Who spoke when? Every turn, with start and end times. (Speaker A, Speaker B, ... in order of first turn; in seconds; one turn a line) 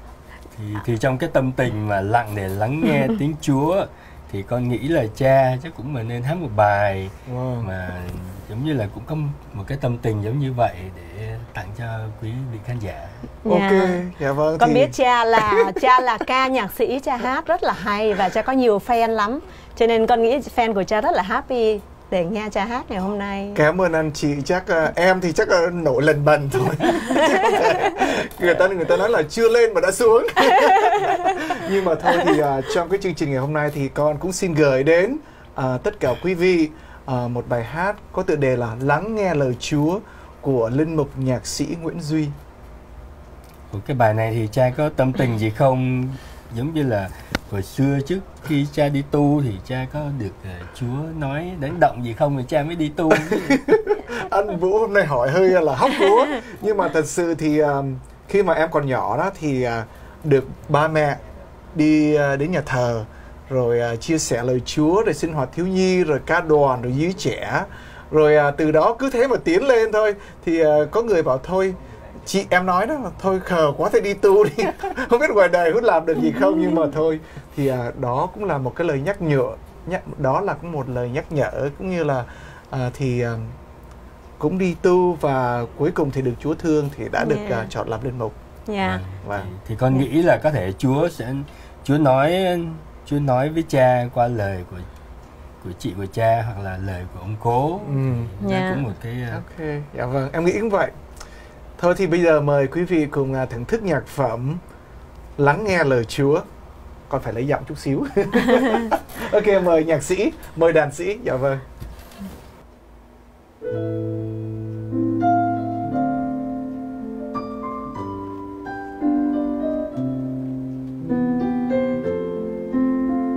Speaker A: 0.6-13.2
Speaker B: 7.3-7.7
Speaker C: 13.4-14.0
Speaker B: 13.5-15.8
Speaker C: 14.6-23.6
Speaker B: 23.6-42.4
Speaker A: 43.7-53.8
Speaker B: 53.4-61.2
Speaker B: 61.7-83.5
Speaker B: 84.4-88.4
Speaker C: 87.2-87.7
Speaker C: 88.7-89.0
Speaker A: 88.8-94.9
Speaker B: 89.2-89.5
Speaker A: 95.6-99.4
Speaker B: 97.8-98.3
Speaker C: 98.4-98.9
Speaker B: 99.3-100.9
Speaker B: 101.8-104.6
Speaker B: 105.4-106.5
Speaker B: 107.1-111.6